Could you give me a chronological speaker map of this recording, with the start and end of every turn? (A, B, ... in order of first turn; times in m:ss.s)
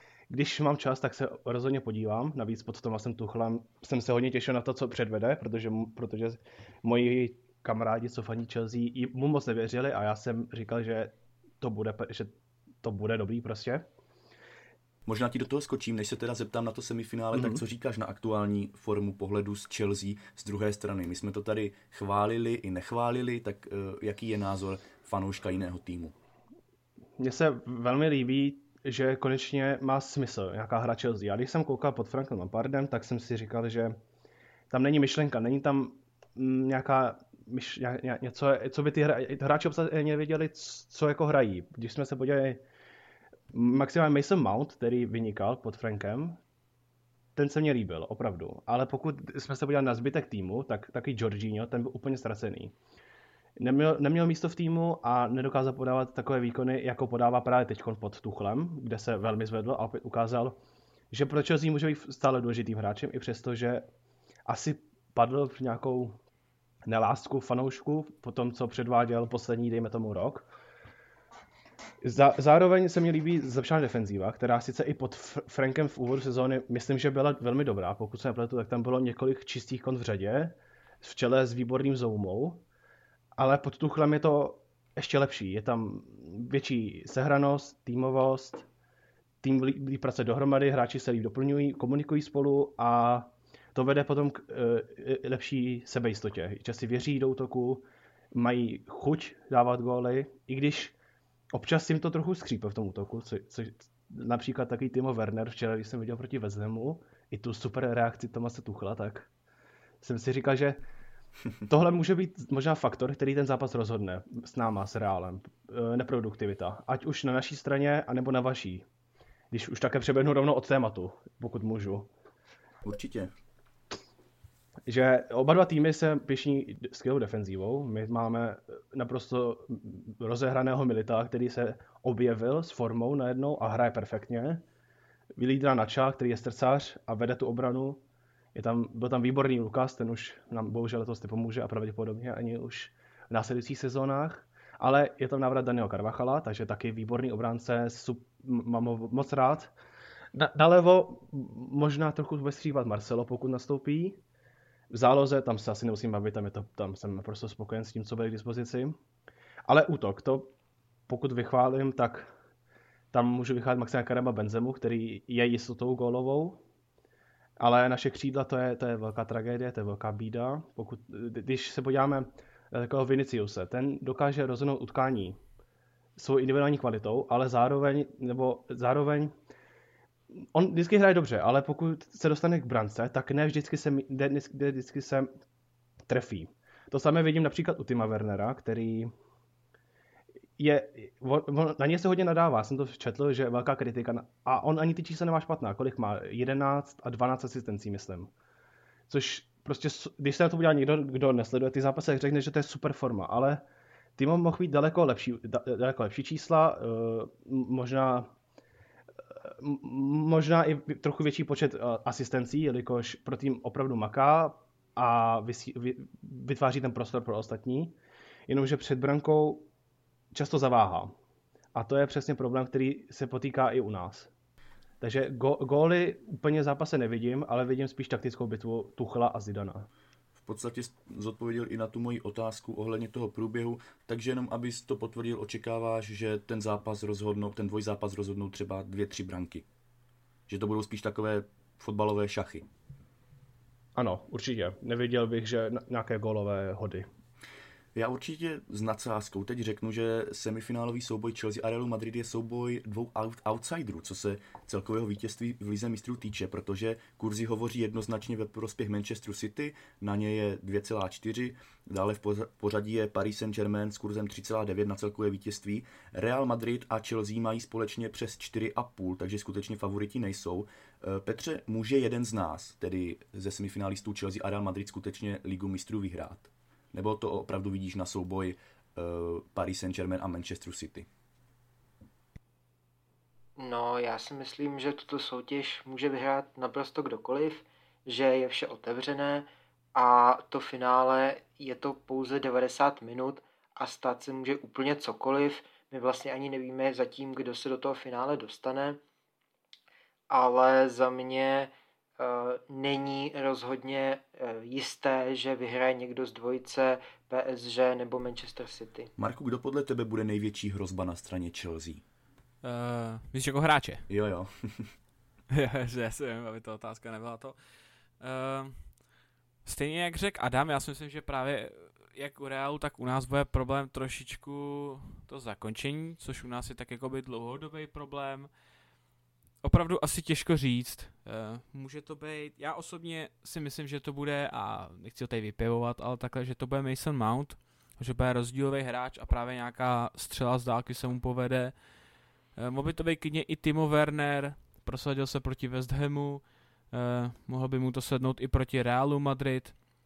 0:00.3-0:13.9 A
0:15.1-0:26.1 B
0:17.3-0:17.6 A
0:27.2-0:34.0 A
0:34.7-0:42.6 A
0:43.5-0:46.4 A
0:47.4-0:52.7 A
0:53.6-1:00.6 A
1:01.1-1:03.9 A
1:04.5-1:06.2 A
1:06.8-1:10.5 A
1:12.0-1:22.6 A
1:23.4-1:28.7 A
1:29.4-1:40.9 A
1:41.5-1:49.3 A
1:50.0-1:50.8 A
1:51.7-1:58.9 A
1:59.5-2:02.1 A
2:02.8-2:03.3 B
2:04.9-2:14.6 A
2:15.4-2:18.0 A
2:18.6-2:29.7 A
2:30.3-2:34.2 A
2:34.9-2:39.0 A
2:39.7-2:40.5 A
2:41.1-2:42.3 A
2:43.1-2:46.6 A
2:47.6-2:55.4 A
2:56.2-2:59.3 A
3:00.5-3:05.3 A
3:06.1-3:09.1 A
3:10.6-3:18.3 A
3:19.1-3:23.6 A
3:24.2-3:28.3 A
3:29.4-3:38.0 A
3:38.5-3:39.7 A
3:40.3-3:41.1 A
3:41.7-3:44.3 A
3:45.0-3:49.9 A
3:50.4-3:59.7 B
4:00.5-4:02.7 B
4:04.0-4:07.1 A
4:08.0-4:41.1 B
4:43.6-4:59.0 C
5:00.3-5:09.1 C
5:09.2-5:12.0 B
5:12.6-5:14.1 D
5:14.1-5:14.9 B
5:15.5-5:17.6 D
5:18.2-5:18.8 D
5:19.6-5:28.5 D
5:29.6-5:41.7 D
5:42.6-5:49.8 D